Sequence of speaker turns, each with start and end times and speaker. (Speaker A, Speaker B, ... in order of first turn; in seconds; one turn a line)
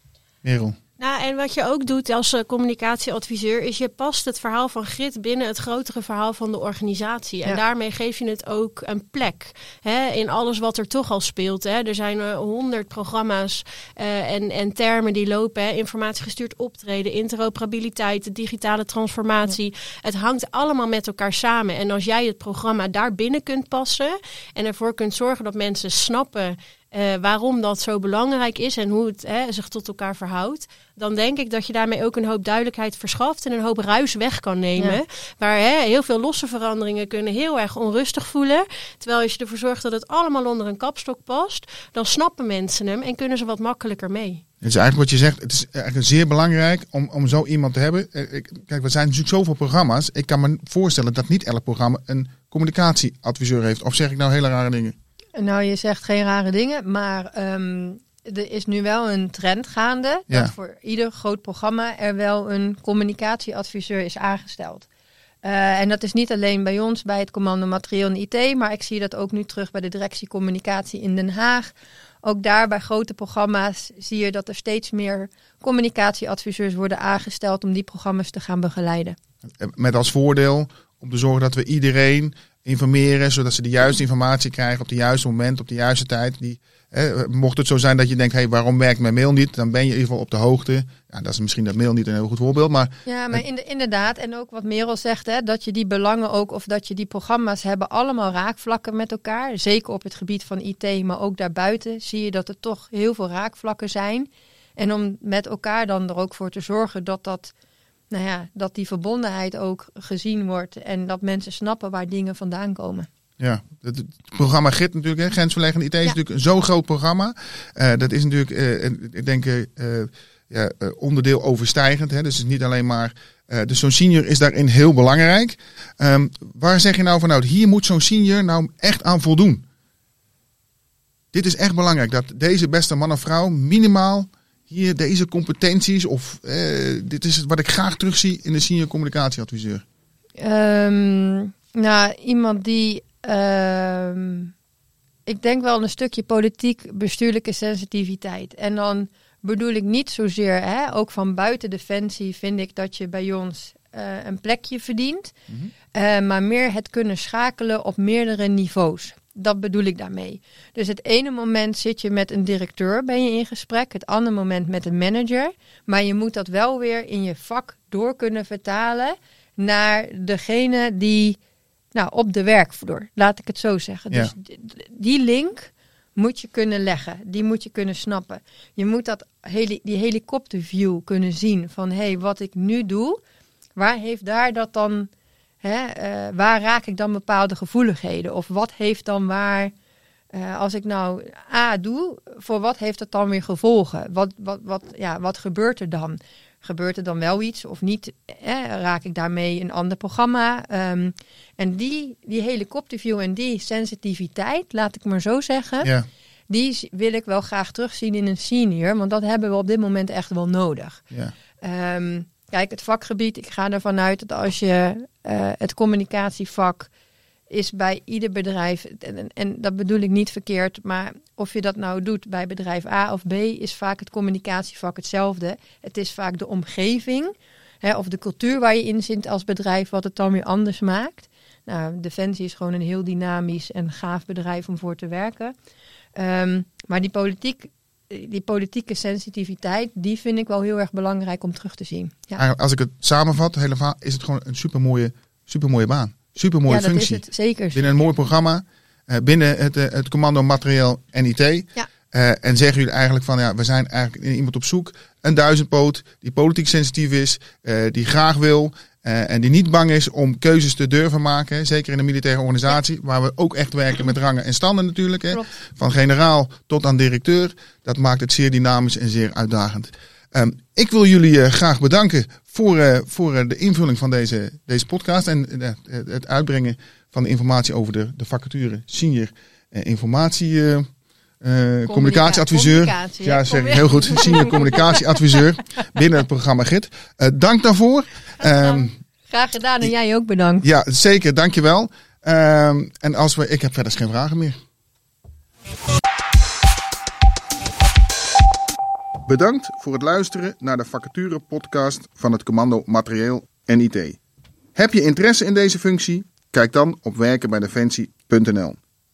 Speaker A: 0.4-0.8
Speaker B: 1.0-44.4
Speaker A: 44.6-55.0
Speaker C: 55.4-64.9
Speaker C: 65.4-71.7
Speaker C: 72.2-79.2
Speaker A: 79.6-93.4
Speaker C: 93.0-107.5
Speaker C: 108.1-113.1
Speaker A: 113.4-129.6
Speaker A: 131.3-139.8
Speaker C: 140.4-144.5
Speaker C: 145.3-155.3
Speaker C: 155.9-171.4
Speaker C: 171.9-183.2
Speaker C: 183.8-185.1
Speaker C: 185.6-189.7
Speaker C: 190.3-205.9
Speaker A: 205.8-206.1
Speaker C: 206.5-211.0
Speaker C: 211.6-216.9
Speaker C: 217.5-235.5
Speaker C: 236.2-242.4
Speaker A: 242.4-280.9
Speaker C: 246.7-247.8
Speaker A: 281.4-288.9
Speaker C: 281.9-285.2
Speaker C: 288.4-290.6
Speaker A: 290.6-294.6
Speaker A: 299.2-304.2
Speaker A: 304.8-308.8